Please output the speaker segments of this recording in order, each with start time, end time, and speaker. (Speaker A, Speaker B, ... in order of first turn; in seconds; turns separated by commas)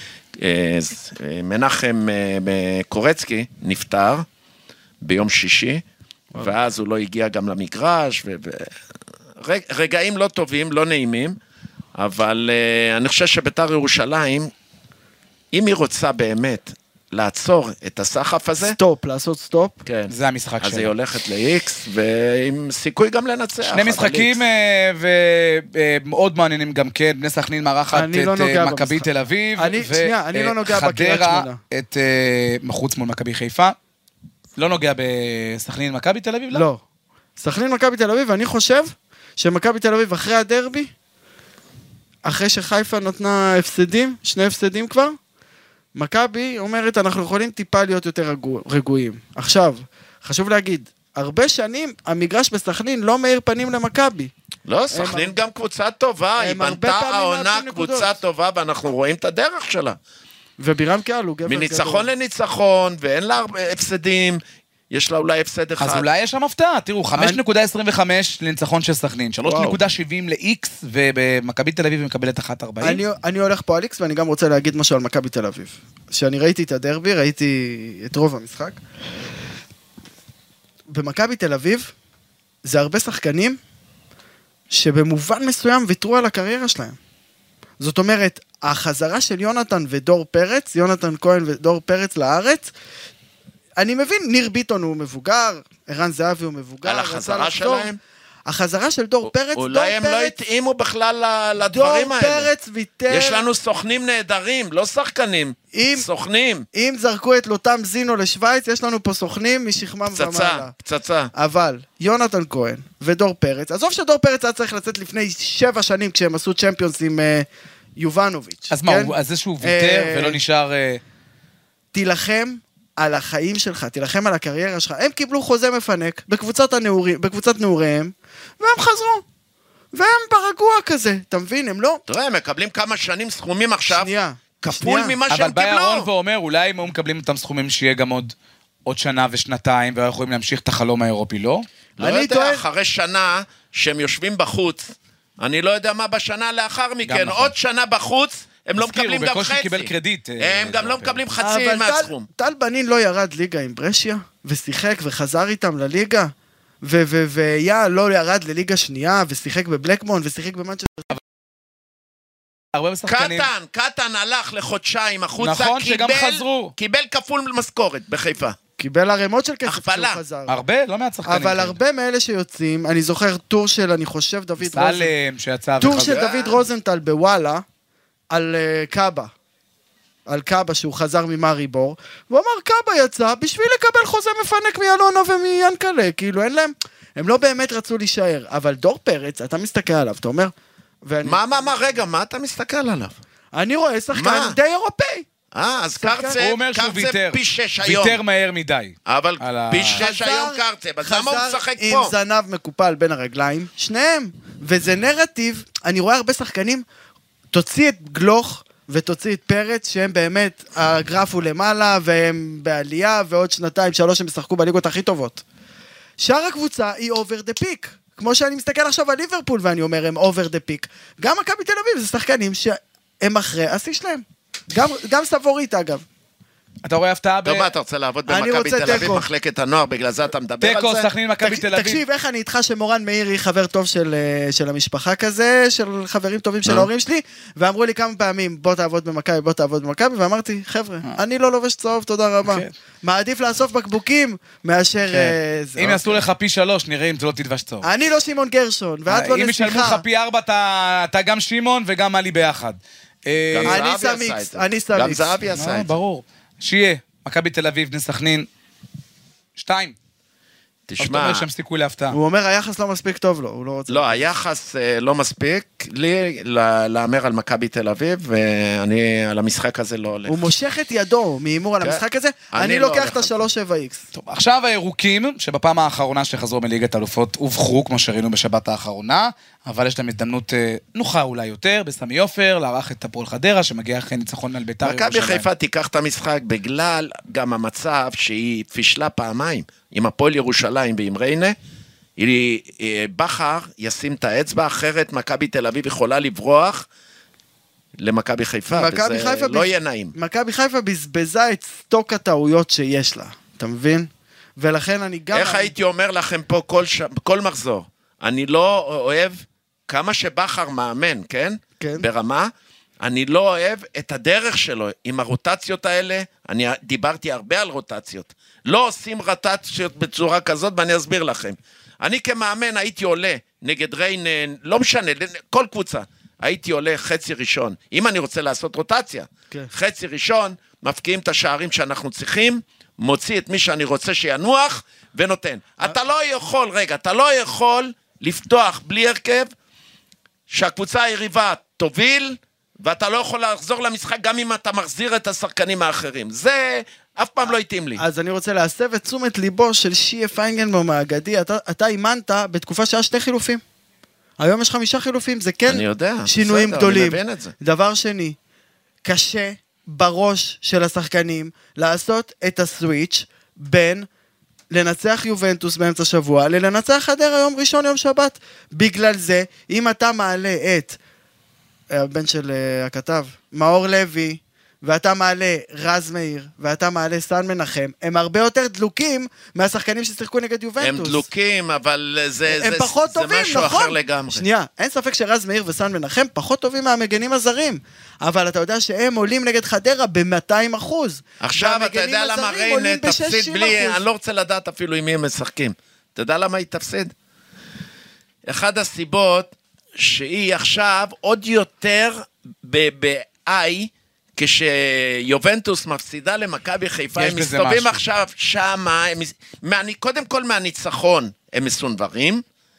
Speaker A: 0.4-4.2, Speaker A: 5.0-5.8, Speaker A: 6.4-8.7, Speaker A: 9.4-11.4, Speaker A: 12.0-14.5, Speaker A: 15.5-18.8, Speaker B: 18.6-19.8, Speaker A: 19.8-24.4, Speaker C: 20.1-20.9, Speaker C: 23.6-33.7, Speaker B: 27.9-29.1, Speaker B: 29.6-31.6, Speaker C: 34.6-36.6, Speaker B: 36.5-36.8, Speaker B: 37.4-40.9, Speaker B: 42.2-45.2, Speaker B: 45.9-54.3, Speaker A: 54.7-60.0, Speaker B: 54.9-55.4, Speaker B: 56.4-58.1, Speaker B: 60.6-62.1, Speaker A: 61.5-66.0, Speaker C: 65.8-73.0, Speaker A: 69.5-69.8, Speaker B: 72.8-78.8, Speaker B: 80.9-81.9, Speaker B: 82.6-83.6, Speaker B: 84.7-87.0, Speaker B: 87.8-92.7, Speaker B: 93.8-97.9, Speaker A: 96.8-98.0, Speaker B: 98.5-100.3, Speaker A: 99.5-102.5, Speaker B: 101.6-103.5, Speaker A: 103.1-106.7, Speaker B: 105.7-106.1, Speaker B: 106.7-110.7, Speaker A: 110.1-111.3, Speaker B: 111.3-120.4, Speaker C: 118.7-121.0, Speaker B: 121.9-129.2, Speaker B: 129.9-132.0, Speaker A: 132.1-134.1, Speaker B: 133.9-135.2, Speaker A: 134.6-136.1, Speaker C: 135.3-138.3, Speaker C: 138.8-141.7, Speaker A: 142.0-152.3, Speaker B: 142.0-142.6, Speaker C: 147.1-147.5, Speaker C: 148.8-151.2, Speaker B: 151.4-161.1, Speaker C: 162.7-163.5, Speaker A: 163.1-168.6, Speaker C: 165.4-166.7, Speaker B: 168.8-170.6, Speaker A: 169.7-170.2, Speaker C: 170.5-171.8, Speaker B: 171.2-175.1, Speaker C: 174.6-176.2, Speaker B: 175.8-177.6, Speaker A: 176.0-176.6, Speaker B: 178.3-179.3, Speaker B: 180.3-190.5, Speaker B: 191.0-191.4, Speaker A: 191.2-193.2, Speaker B: 193.5-195.3, Speaker A: 194.1-194.6, Speaker A: 195.5-198.2, Speaker B: 196.0-196.4, Speaker C: 196.4-200.0, Speaker A: 199.1-202.1, Speaker B: 199.9-206.8, Speaker B: 207.5-215.4, Speaker B: 216.2-226.0, Speaker C: 226.8-227.7, Speaker A: 227.4-231.1, Speaker B: 228.3-229.2, Speaker C: 230.6-232.0, Speaker B: 231.4-246.2, Speaker C: 242.4-242.7, Speaker C: 245.1-247.9, Speaker B: 247.8-250.0, Speaker C: 249.1-253.8, Speaker A: 253.5-255.9, Speaker B: 253.7-255.4, Speaker C: 255.5-258.5, Speaker C: 259.6-259.9, Speaker A: 260.9-261.4, Speaker C: 261.0-262.2, Speaker B: 262.1-264.2, Speaker A: 263.9-270.4, Speaker B: 270.3-274.0, Speaker A: 272.5-273.4, Speaker C: 274.1-285.4, Speaker A: 284.8-291.6, Speaker A: 292.2-296.9, Speaker A: 298.0-300.1, Speaker B: 298.7-305.7, Speaker A: 305.3-339.5, Speaker B: 311.8-312.1, Speaker A: 340.5-348.0, Speaker B: 348.0-353.6, Speaker B: 354.4-358.4, Speaker A: 355.7-357.5, Speaker B: 359.0-364.1, Speaker B: 364.7-371.0, Speaker B: 371.9-381.2, Speaker A: 380.8-384.4, Speaker B: 382.5-394.0, Speaker A: 391.4-397.1, Speaker A: 398.5-412.4, Speaker C: 407.1-408.0